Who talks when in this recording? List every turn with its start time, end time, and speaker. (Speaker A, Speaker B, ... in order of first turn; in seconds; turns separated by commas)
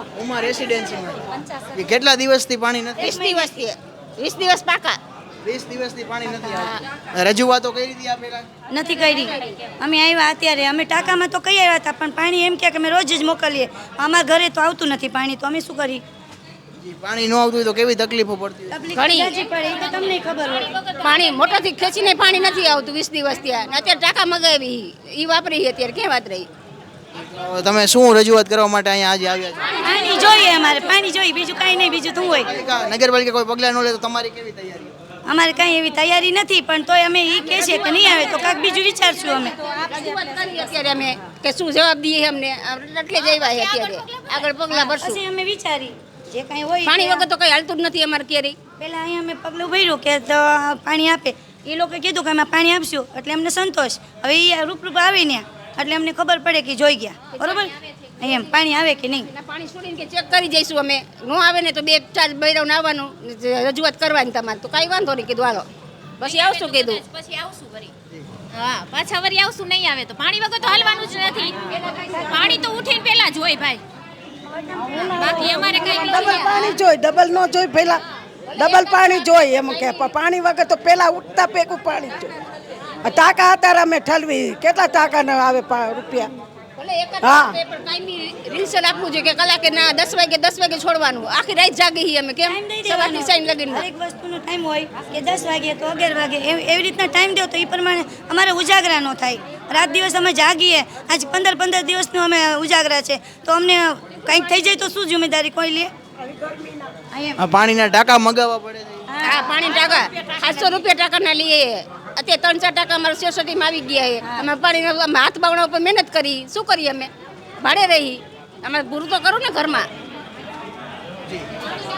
Speaker A: 0.1-3.2, Speaker B: 3.0-5.0, Speaker C: 3.0-3.5, Speaker A: 5.4-8.4, Speaker C: 8.7-16.0, Speaker A: 16.8-18.8, Speaker C: 18.7-20.8, Speaker B: 18.9-19.4, Speaker B: 21.0-26.5, Speaker A: 27.2-29.8, Speaker C: 29.8-32.5, Speaker A: 32.3-34.9, Speaker C: 35.2-39.5, Speaker B: 39.6-45.2, Speaker D: 43.3-44.3, Speaker C: 44.7-47.3, Speaker B: 46.9-48.5, Speaker C: 48.8-59.3, Speaker B: 59.3-65.7, Speaker B: 66.2-67.0, Speaker D: 67.0-67.9, Speaker D: 68.5-73.8, Speaker E: 74.7-78.0, Speaker D: 75.0-76.7, Speaker B: 78.5-80.0, Speaker E: 78.5-82.3, Speaker E: 83.0-86.3, Speaker B: 86.8-93.8, Speaker E: 87.2-87.5, Speaker C: 92.4-105.9, Speaker C: 107.1-107.4, Speaker A: 107.4-109.1, Speaker C: 109.1-109.6, Speaker B: 109.2-117.1, Speaker B: 117.6-119.9